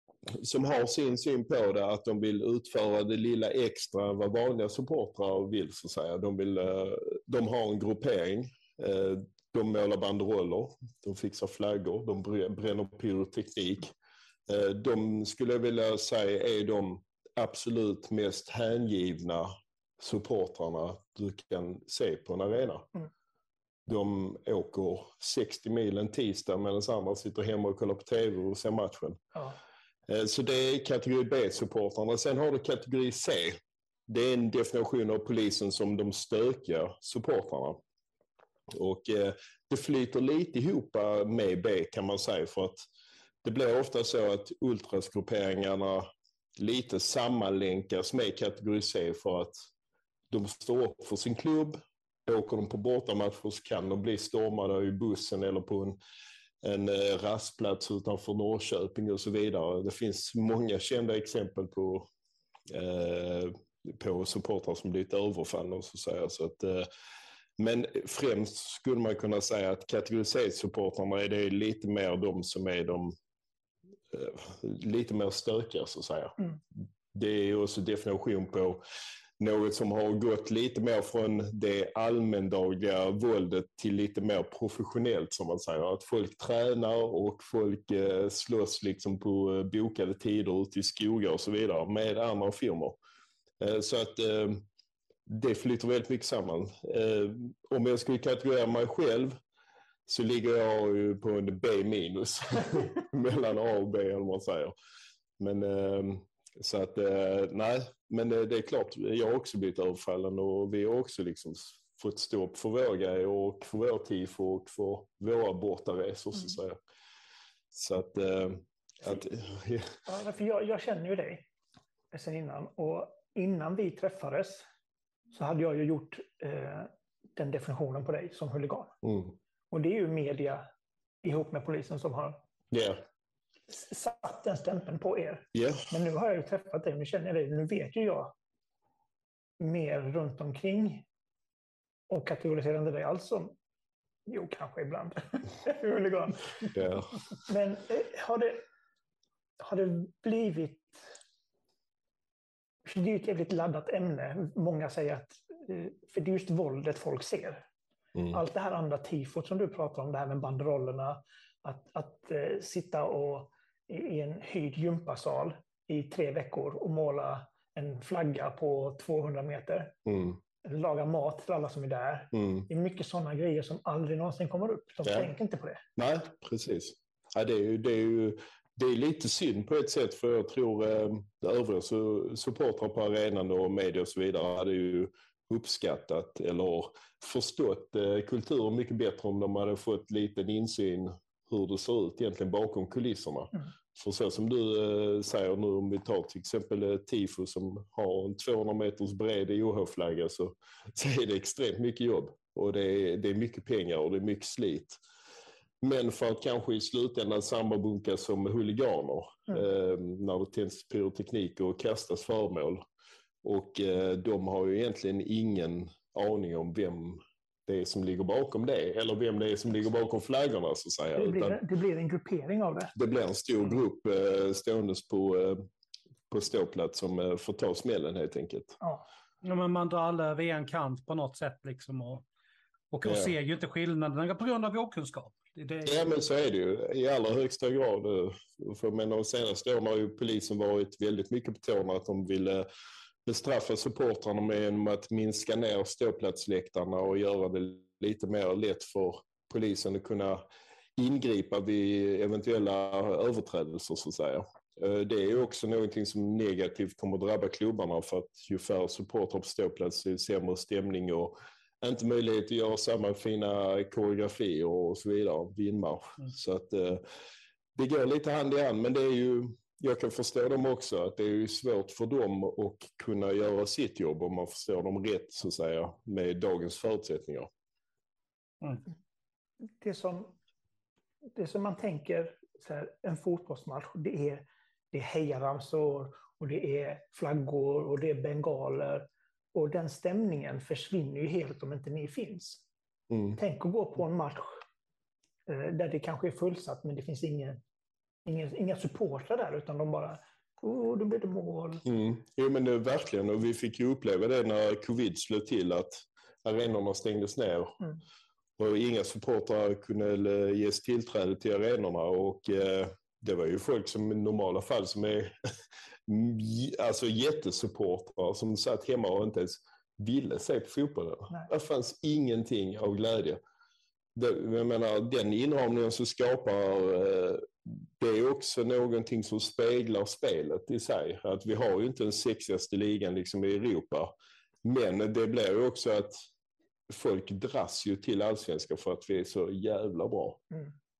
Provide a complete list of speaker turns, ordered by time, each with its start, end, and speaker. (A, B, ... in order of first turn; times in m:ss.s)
0:00.3-0:13.9 A
0:14.5-0:22.9 A
0:23.8-0:29.2 A
0:30.1-0:37.8 A
0:38.7-0:42.8 A
0:43.4-0:49.6 A
0:50.3-0:56.0 A
0:56.6-1:02.1 A
1:02.7-1:06.9 A
1:07.6-1:13.1 A
1:14.1-1:16.4 A
1:17.1-1:18.8 A
1:19.4-1:33.0 A
1:33.6-1:34.6 A
1:35.3-1:39.4 A
1:40.1-1:44.7 A
1:45.4-1:56.8 A
1:57.7-2:00.0 A
2:00.0-2:01.5 B
2:02.1-2:04.6 B
2:05.3-2:08.9 B
2:09.0-2:09.4 A
2:09.7-2:10.6 B
2:11.2-2:12.4 B
2:12.7-2:13.0 A
2:13.7-2:18.3 B
2:15.5-2:15.9 A
2:19.6-2:21.0 B
2:22.1-2:23.6 B
2:24.3-2:26.7 B
2:26.7-2:27.1 A
2:27.4-2:28.6 B
2:29.6-2:31.1 B
2:32.8-2:37.6 B
2:38.3-2:50.0 B
2:50.0-2:50.4 A
2:50.6-2:55.8 B
2:52.3-2:52.6 A
2:55.0-2:55.3 A
2:56.0-3:25.0 A
3:25.8-3:32.8 A
3:33.4-3:41.6 A
3:41.1-3:42.9 B
3:42.9-3:45.6 A
3:46.3-3:48.8 A
3:49.4-3:52.2 C
3:52.9-3:56.1 C
3:53.0-3:53.3 A
3:55.8-4:02.7 A
4:03.2-4:10.4 A
4:11.0-4:27.0 A
4:27.8-4:37.5 A
4:39.8-4:40.4 B
4:41.4-4:52.6 B
4:53.1-4:53.4 A
4:53.4-4:54.6 B
4:55.5-4:57.6 B
4:58.2-5:01.8 B
5:01.8-5:07.8 A
5:08.6-5:15.3 A
5:16.1-5:23.4 A
5:24.1-5:34.1 A
5:34.6-5:36.2 A
5:36.9-5:40.4 A